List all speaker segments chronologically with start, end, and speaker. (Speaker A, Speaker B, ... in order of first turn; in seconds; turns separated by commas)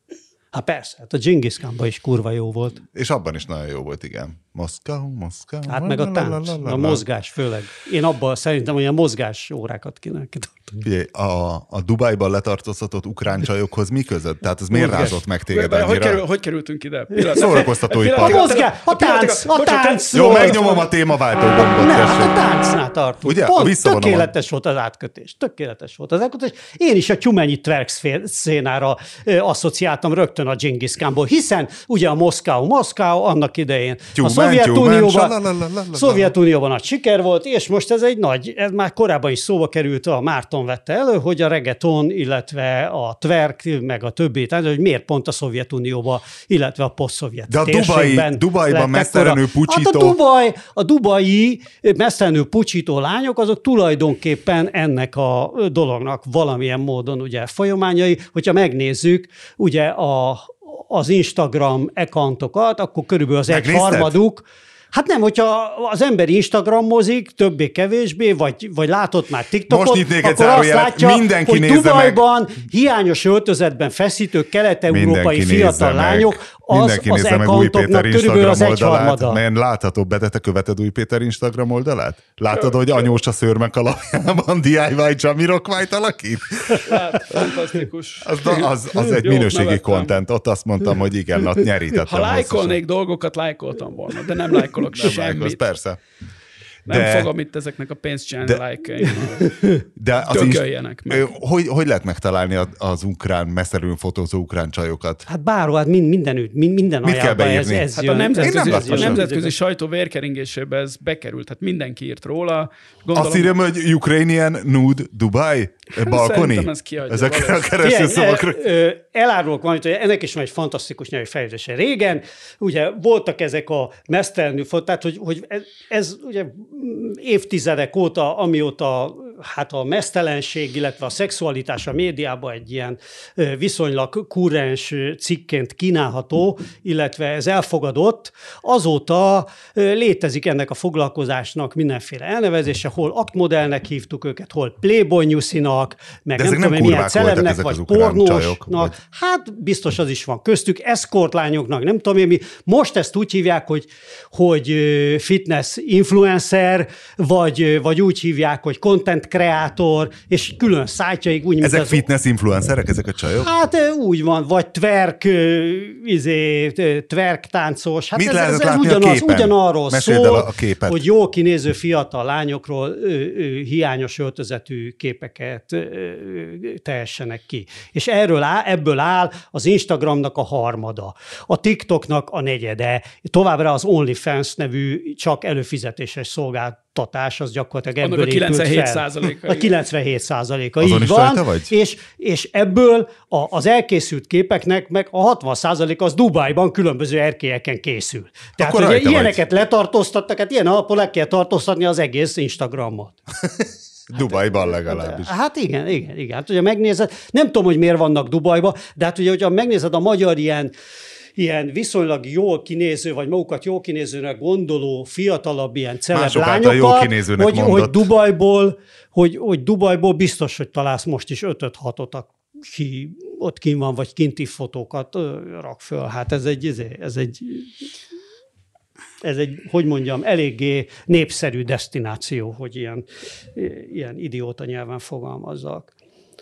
Speaker A: 0.5-2.8, Speaker B: 2.9-7.0, Speaker A: 5.7-10.8, Speaker B: 10.8-16.2, Speaker A: 14.7-15.2, Speaker C: 15.5-20.8, Speaker B: 17.3-18.6, Speaker A: 18.2-20.8, Speaker B: 20.1-22.4, Speaker A: 21.6-35.4, Speaker B: 23.2-24.3, Speaker B: 34.2-36.3, Speaker A: 35.9-79.4, Speaker B: 47.5-50.2, Speaker B: 63.5-64.2, Speaker B: 69.7-72.2, Speaker B: 74.9-87.2, Speaker C: 82.5-83.1, Speaker C: 86.8-90.2, Speaker B: 88.2-92.8, Speaker C: 92.0-95.6, Speaker B: 94.9-96.0, Speaker C: 96.9-99.6, Speaker B: 96.9-97.3, Speaker A: 99.4-99.8, Speaker B: 100.0-105.3, Speaker C: 100.3-101.3, Speaker A: 105.3-109.5, Speaker B: 107.0-109.3, Speaker C: 108.0-113.5, Speaker B: 113.1-118.6, Speaker C: 116.0-117.7, Speaker A: 117.8-162.0, Speaker B: 146.4-148.9, Speaker B: 161.6-163.5, Speaker A: 163.4-203.2, Speaker B: 168.2-171.0, Speaker C: 188.0-189.8, Speaker B: 190.8-191.7, Speaker B: 198.6-199.4, Speaker B: 203.6-205.3, Speaker A: 204.8-210.7, Speaker A: 211.4-227.9, Speaker B: 216.1-218.1, Speaker A: 229.2-235.9